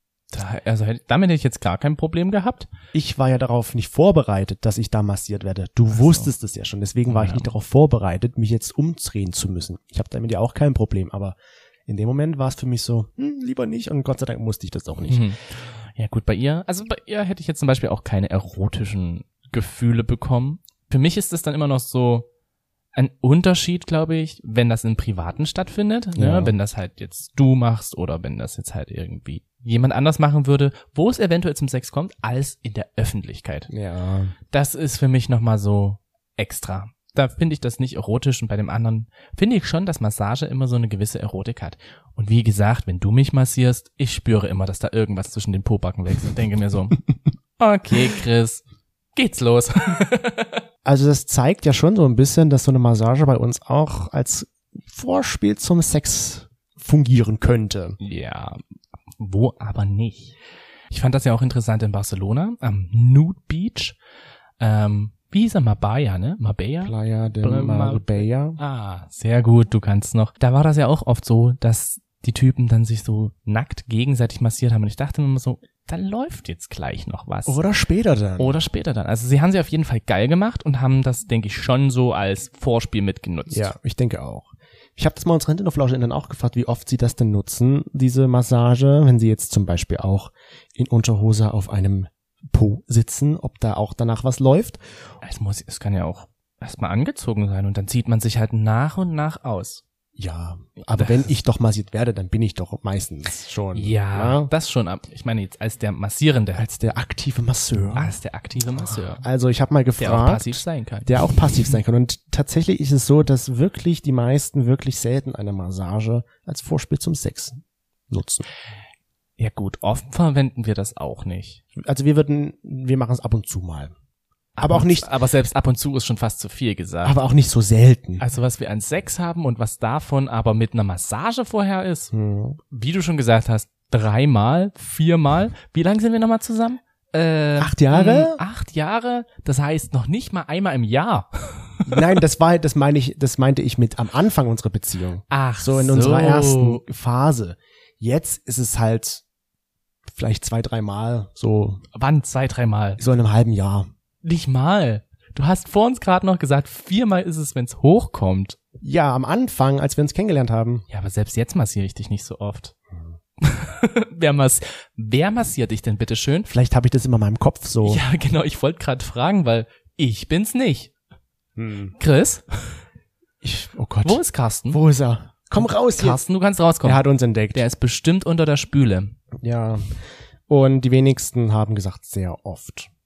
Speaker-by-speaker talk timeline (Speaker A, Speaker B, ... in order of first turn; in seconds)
Speaker A: 0.3-2.7, 5.9-6.3, 7.1-7.5, 15.1-22.3, 22.9-33.7, 34.5-47.0, 47.6-48.6, 49.1-50.6, 58.0-58.6, 59.2-60.4, 60.9-64.0, 64.6-77.6, 78.4-83.7, 95.2-99.8, 100.9-101.3, 103.7-106.6, 108.0-109.2, 110.0-111.4, 119.4-121.6, 124.6-127.2, 128.2-132.1, 132.7-142.1, 145.3-146.8, 151.9-153.0, 154.2-158.6, 160.9-162.7, 163.4-166.5, 167.8-170.9, 172.0-172.8, 174.0-174.8, 175.6-179.2
Speaker B: 2.9-15.3, 26.1-26.5, 33.7-34.3, 50.8-58.0, 66.8-68.6, 77.5-78.5, 83.5-94.8, 100.2-104.5, 106.5-108.1, 108.8-118.4, 121.8-123.9, 124.6-125.1, 127.0-128.2, 132.1-132.6, 137.6-138.4, 141.8-149.2, 150.1-151.8, 153.0-153.9, 158.8-160.8, 166.5-168.0, 171.6-171.9, 173.4-176.2, 176.8-177.6, 179.4-182.9